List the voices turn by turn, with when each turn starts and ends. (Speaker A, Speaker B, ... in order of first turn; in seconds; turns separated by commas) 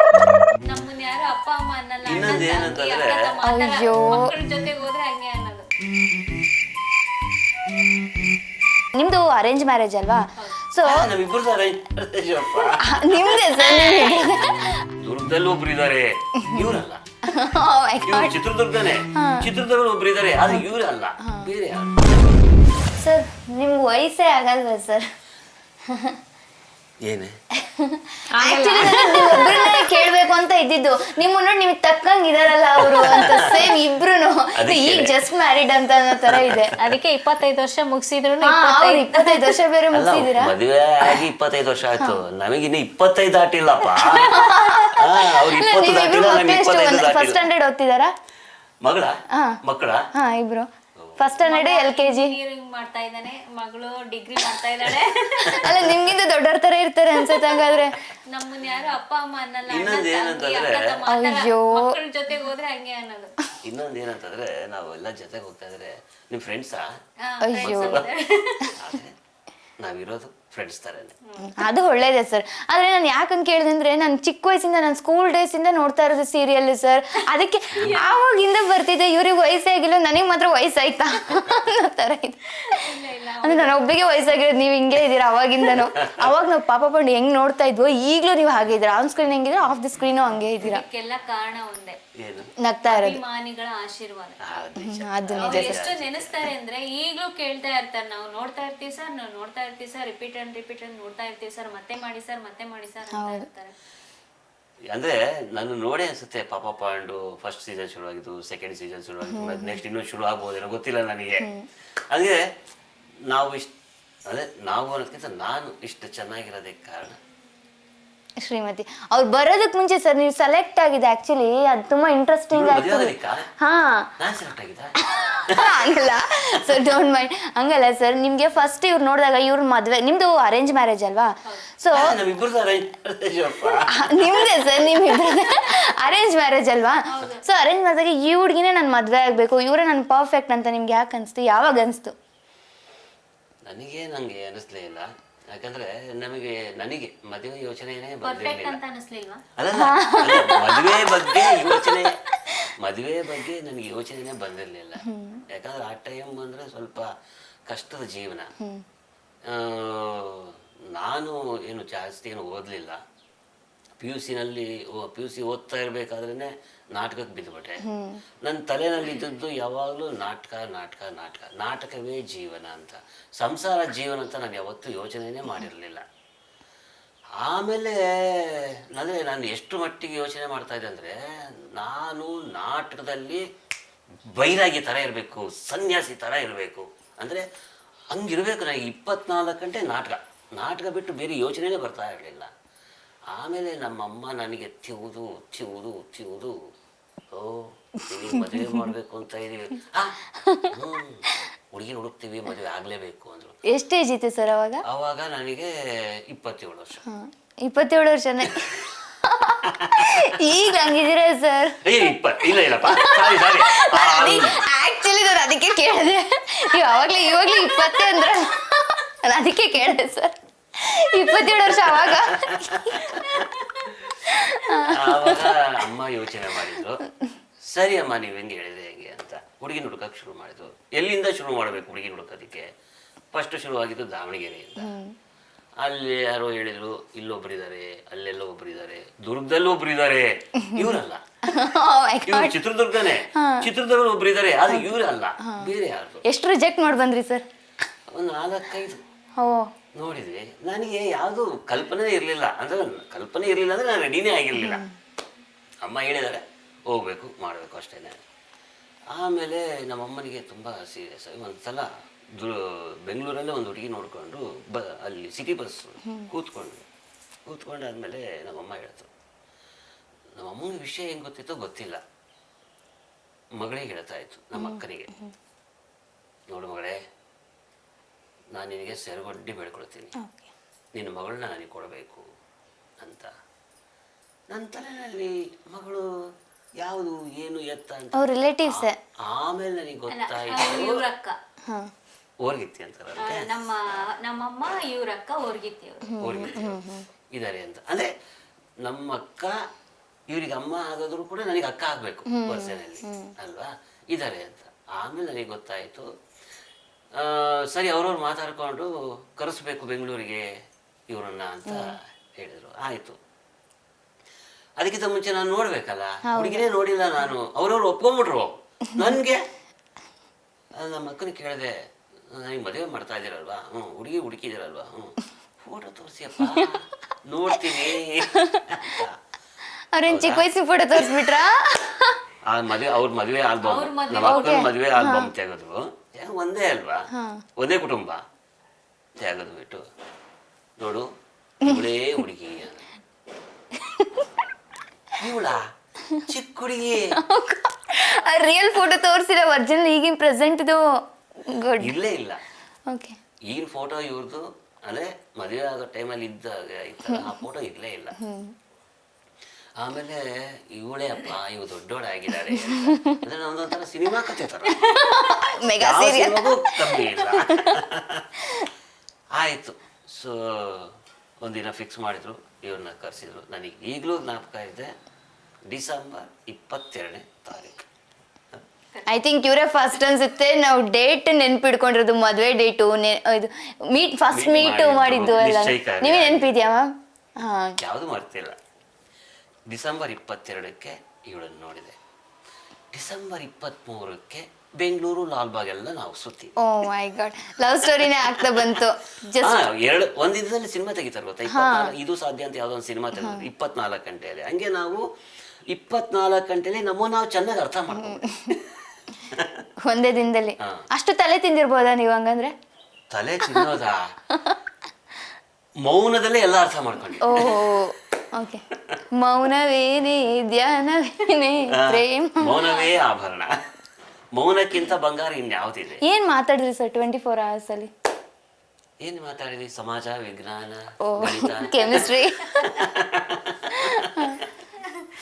Speaker A: 0.7-5.7, Speaker B: 2.1-3.3, Speaker C: 3.4-4.3, Speaker C: 8.9-11.1, Speaker B: 10.8-13.4, Speaker C: 12.8-14.8, Speaker A: 13.6-14.7, Speaker B: 14.9-17.0, Speaker C: 16.4-16.7, Speaker C: 17.3-18.4, Speaker B: 18.1-22.4, Speaker C: 19.1-19.5, Speaker C: 21.2-21.5, Speaker C: 23.0-25.0, Speaker C: 25.9-26.2, Speaker B: 27.1-27.4, Speaker C: 27.6-36.7, Speaker A: 28.3-30.1, Speaker B: 32.8-33.7, Speaker B: 34.6-35.2, Speaker B: 36.3-36.7, Speaker A: 36.8-39.6, Speaker C: 38.4-40.5, Speaker B: 39.9-47.5, Speaker C: 44.0-48.1, Speaker B: 48.8-50.1, Speaker C: 50.1-52.4, Speaker B: 51.0-51.4, Speaker A: 51.4-55.8, Speaker C: 55.4-58.0, Speaker B: 55.5-56.1, Speaker A: 58.3-63.3, Speaker B: 59.7-61.0, Speaker C: 61.1-62.0, Speaker B: 63.6-66.9, Speaker A: 67.2-68.8, Speaker C: 67.4-68.0, Speaker B: 67.6-68.0, Speaker B: 68.7-69.2, Speaker B: 69.8-71.2, Speaker A: 71.3-71.6, Speaker C: 71.4-82.8, Speaker B: 77.7-78.0, Speaker A: 77.8-78.1, Speaker A: 82.7-83.9, Speaker C: 83.4-90.8, Speaker B: 85.7-86.3, Speaker A: 90.6-92.0, Speaker B: 92.2-92.5, Speaker C: 92.6-93.2, Speaker A: 92.8-94.4, Speaker B: 94.4-96.5, Speaker C: 94.8-95.8, Speaker A: 95.4-103.8, Speaker C: 103.1-103.5, Speaker B: 104.9-111.5, Speaker C: 109.3-109.8, Speaker C: 111.4-111.7, Speaker B: 112.1-112.4, Speaker B: 113.3-113.7, Speaker B: 114.3-117.2, Speaker C: 118.4-124.1, Speaker B: 122.5-123.5, Speaker B: 124.2-125.9, Speaker C: 125.0-132.2, Speaker B: 126.7-126.9, Speaker B: 131.9-135.0, Speaker C: 133.9-142.2, Speaker A: 137.1-137.4, Speaker B: 143.7-148.8, Speaker A: 148.2-149.4, Speaker B: 149.6-152.2, Speaker C: 149.7-152.5, Speaker B: 152.8-157.1, Speaker C: 155.1-155.4, Speaker B: 157.7-158.5, Speaker B: 159.5-163.0, Speaker B: 164.0-167.8, Speaker C: 167.8-168.2, Speaker B: 168.5-176.0, Speaker B: 177.4-181.2, Speaker B: 181.8-183.4, Speaker B: 184.3-187.5, Speaker B: 188.1-192.5, Speaker B: 193.3-196.6, Speaker B: 197.3-203.6, Speaker C: 198.3-198.9, Speaker C: 200.4-200.8, Speaker C: 203.7-204.8, Speaker B: 204.8-207.0, Speaker C: 207.1-208.7, Speaker B: 208.5-208.9, Speaker C: 209.2-223.4, Speaker B: 209.6-210.4, Speaker B: 211.8-214.6, Speaker B: 221.7-224.2, Speaker C: 224.3-225.6, Speaker B: 224.8-227.1, Speaker B: 227.7-232.7, Speaker B: 233.3-234.9, Speaker C: 234.8-235.1, Speaker B: 235.8-241.2, Speaker C: 240.7-240.9, Speaker C: 241.5-242.6, Speaker B: 242.3-246.2, Speaker C: 243.3-243.7, Speaker C: 244.7-245.7, Speaker C: 246.3-247.4, Speaker B: 248.1-249.0, Speaker C: 249.4-249.7, Speaker B: 250.0-254.8, Speaker C: 254.6-254.9, Speaker B: 255.8-258.2, Speaker B: 259.1-266.9, Speaker B: 267.5-269.1, Speaker B: 270.4-272.0, Speaker B: 273.6-275.1, Speaker C: 274.6-275.3, Speaker B: 276.5-277.0, Speaker B: 278.6-280.1, Speaker C: 280.2-280.5, Speaker B: 281.0-282.3, Speaker B: 283.0-283.3, Speaker B: 284.5-286.1, Speaker B: 286.8-291.0, Speaker C: 288.1-289.0, Speaker A: 290.1-291.4, Speaker B: 292.4-293.5, Speaker A: 293.2-296.4, Speaker C: 296.1-297.1, Speaker B: 296.2-296.8, Speaker B: 297.4-298.1, Speaker B: 298.8-299.6, Speaker B: 300.3-306.1, Speaker C: 302.3-303.3, Speaker B: 307.2-310.5, Speaker B: 311.1-313.2, Speaker B: 314.8-319.4, Speaker C: 316.3-316.7, Speaker B: 320.8-321.8, Speaker B: 322.3-329.2, Speaker C: 326.4-326.8, Speaker C: 327.5-329.0, Speaker C: 329.9-332.2, Speaker B: 330.1-330.4, Speaker B: 332.5-337.1, Speaker A: 333.6-334.7, Speaker C: 334.2-335.3, Speaker C: 337.1-337.4, Speaker B: 337.6-338.2, Speaker B: 339.2-339.9, Speaker B: 340.8-341.1, Speaker B: 341.6-342.9, Speaker C: 343.8-344.3, Speaker B: 345.2-345.7, Speaker B: 346.2-347.2, Speaker C: 347.2-350.8, Speaker C: 351.5-352.0, Speaker B: 351.8-352.4, Speaker C: 352.9-353.2, Speaker B: 353.5-358.2, Speaker C: 357.1-357.3, Speaker C: 358.2-358.5, Speaker B: 359.8-365.0, Speaker C: 362.4-363.2, Speaker C: 364.7-367.8, Speaker B: 365.8-368.3, Speaker B: 369.4-374.9, Speaker B: 375.7-377.9, Speaker C: 379.1-387.8, Speaker B: 384.3-386.5, Speaker B: 387.8-388.6, Speaker B: 389.7-392.0, Speaker B: 392.9-396.5, Speaker C: 396.6-399.6, Speaker B: 398.0-398.8, Speaker B: 399.4-405.0, Speaker C: 401.5-401.9, Speaker C: 403.1-403.5, Speaker B: 405.7-408.8, Speaker C: 407.9-408.5, Speaker B: 409.3-409.6, Speaker C: 409.9-412.5, Speaker B: 413.1-414.0, Speaker B: 415.9-417.6, Speaker C: 417.2-418.6, Speaker C: 419.2-422.9, Speaker B: 421.7-423.5, Speaker B: 424.4-426.0, Speaker C: 426.1-427.9, Speaker B: 429.0-434.2, Speaker C: 431.1-432.5, Speaker C: 433.8-434.4